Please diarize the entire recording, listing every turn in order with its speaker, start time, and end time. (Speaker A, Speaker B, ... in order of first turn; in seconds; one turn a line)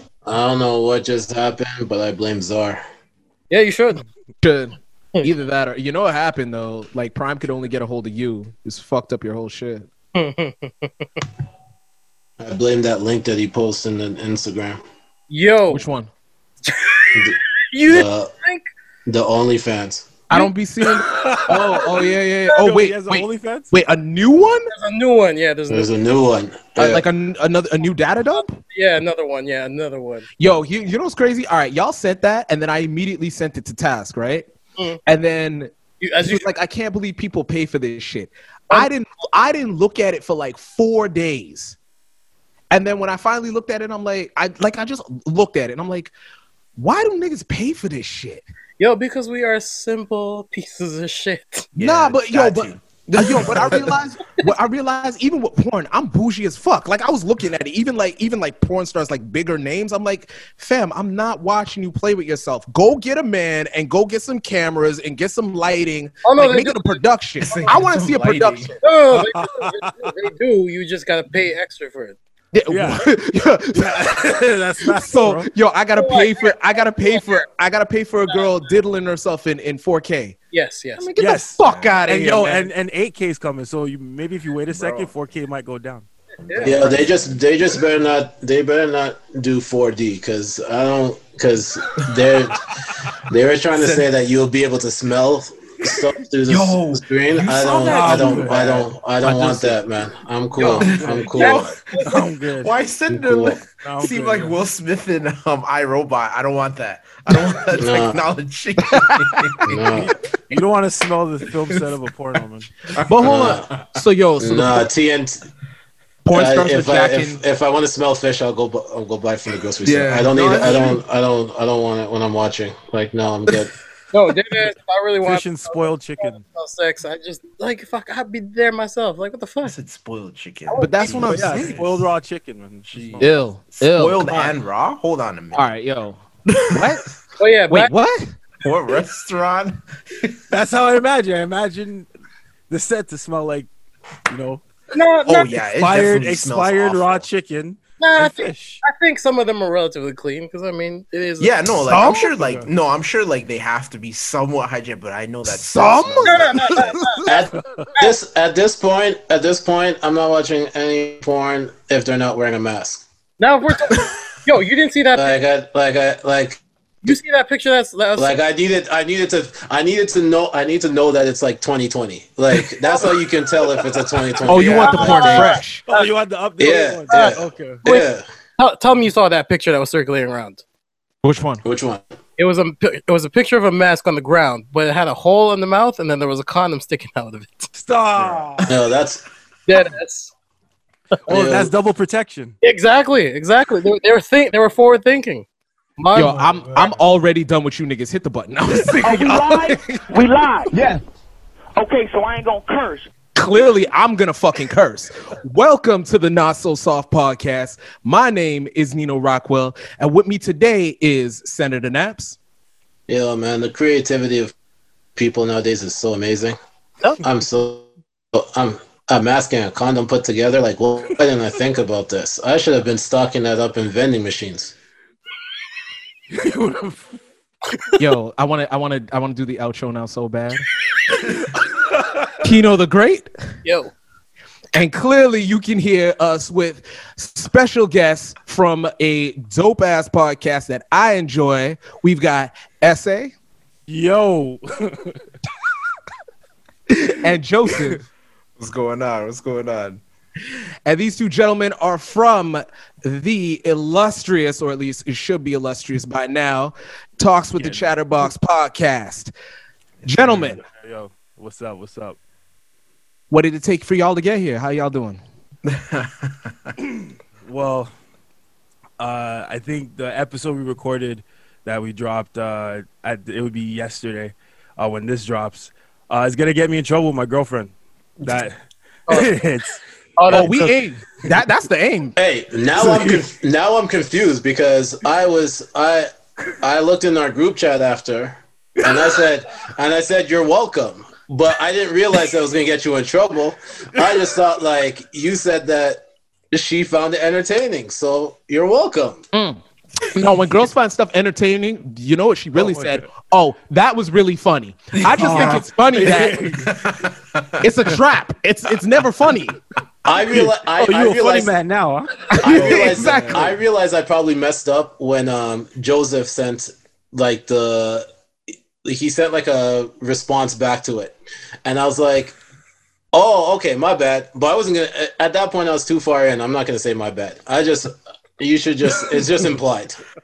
Speaker A: 0.2-2.8
Speaker B: 3.5-4.0
Speaker C: 4.4-9.9
Speaker B: 10.2-11.2
Speaker A: 12.4-14.8
Speaker B: 15.3-15.9
Speaker C: 15.7-16.1
Speaker B: 16.7-18.7
Speaker A: 17.9-18.3
Speaker A: 19.1-20.2
Speaker C: 20.3-24.7
Speaker D: 20.8-23.7
Speaker B: 24.7-25.9
Speaker A: 25.7-27.1
Speaker C: 26.8-28.6
Speaker B: 28.7-30.3
Speaker C: 30.4-34.5
Speaker C: 35.1-41.8
Speaker B: 36.0-36.5
Speaker C: 42.7-46.1
Speaker C: 46.8-48.4
Speaker B: 48.8-51.7
Speaker E: 51.8-54.0
Speaker C: 51.8-68.7
Speaker B: 66.2-67.7
Speaker E: 67.4-68.7
Speaker B: 68.8-72.2
Speaker D: 69.1-70.1
Speaker C: 72.5-74.2
Speaker D: 72.7-73.1
Speaker D: 73.7-75.5
Speaker C: 74.8-80.4
Speaker B: 76.0-77.4
Speaker B: 80.5-81.1
Speaker C: 81.0-82.7
Speaker D: 81.2-86.1
Speaker E: 81.6-82.0
Speaker E: 84.7-85.1
Speaker E: 86.4-87.4
Speaker B: 86.5-86.8
Speaker A: 86.6-101.7
Speaker D: 93.8-94.0
Speaker E: 96.5-98.8
Speaker D: 97.8-99.8
Speaker D: 100.6-101.5
Speaker E: 100.6-109.7
Speaker B: 101.3-102.2
Speaker D: 102.0-102.7
Speaker A: 103.1-103.6
Speaker D: 103.8-104.6
Speaker A: 107.8-108.3
Speaker C: 108.9-109.6
Speaker A: 109.7-110.1
Speaker D: 109.7-112.8
Speaker E: 112.9-114.0
Speaker C: 113.1-114.9
Speaker A: 113.2-113.7
Speaker A: 114.4-115.5
Speaker C: 116.2-117.4
Speaker A: 116.3-123.7
Speaker E: 119.8-121.0
Speaker B: 124.1-129.8
Speaker D: 125.2-126.4
Speaker E: 129.7-131.9
Speaker B: 130.7-131.2
Speaker C: 130.8-131.8
Speaker D: 131.3-133.3
Speaker E: 132.9-135.7
Speaker C: 133.2-134.5
Speaker C: 135.5-137.1
Speaker E: 136.5-137.1
Speaker B: 137.4-137.9
Speaker C: 137.7-138.3
Speaker E: 138.6-140.4
Speaker D: 140.5-142.1
Speaker D: 142.7-143.7
Speaker D: 144.3-144.6
Speaker B: 144.9-145.6
Speaker E: 145.2-147.2
Speaker D: 145.8-148.8
Speaker B: 148.0-151.6
Speaker E: 151.4-156.8
Speaker C: 151.9-152.3
Speaker D: 152.3-152.7
Speaker C: 155.5-157.4
Speaker B: 156.2-157.3
Speaker A: 157.2-163.1
Speaker B: 163.4-165.4
Speaker A: 165.2-167.1
Speaker B: 167.0-168.4
Speaker A: 168.2-175.6
Speaker C: 174.5-175.8
Speaker B: 174.6-176.1
Speaker D: 175.9-177.8
Speaker A: 176.6-178.2
Speaker B: 177.1-180.6
Speaker C: 181.2-181.6
Speaker A: 181.6-182.0
Speaker B: 182.4-187.7
Speaker D: 187.8-188.8
Speaker E: 188.2-188.4
Speaker A: 188.6-189.2
Speaker B: 189.7-190.3
Speaker D: 191.3-192.6
Speaker A: 191.3-191.7
Speaker B: 192.6-195.5
Speaker B: 196.0-196.4
Speaker C: 196.1-200.4
Speaker F: 199.0-201.0
Speaker F: 201.8-203.0
Speaker C: 203.4-212.4
Speaker A: 213.1-214.5
Speaker A: 215.2-216.6
Speaker A: 217.2-224.7
Speaker D: 226.3-227.1
Speaker C: 228.0-230.7
Speaker D: 231.6-232.3
Speaker C: 232.4-233.3
Speaker B: 233.6-233.9
Speaker C: 234.7-243.3
Speaker D: 243.9-245.2
Speaker C: 247.2-248.0
Speaker E: 248.6-250.0
Speaker C: 250.8-259.3
Speaker D: 257.6-257.9
Speaker C: 260.1-260.6
Speaker D: 260.2-262.2
Speaker C: 263.3-265.2
Speaker E: 265.6-266.7
Speaker D: 266.8-267.9
Speaker D: 269.0-278.6
Speaker D: 279.1-280.8
Speaker B: 280.2-280.5
Speaker C: 280.3-282.2
Speaker A: 282.2-286.1
Speaker D: 282.8-283.2
Speaker A: 286.6-299.2
Speaker C: 299.3-306.4
Speaker D: 302.6-303.0
Speaker E: 304.9-305.6
Speaker D: 305.2-306.9
Speaker E: 306.6-307.7
Speaker C: 307.6-309.6
Speaker A: 310.1-311.5
Speaker D: 310.3-312.3
Speaker C: 312.4-313.5
Speaker A: 312.4-318.1
Speaker E: 312.5-313.5
Speaker A: 318.8-322.4
Speaker A: 323.1-330.0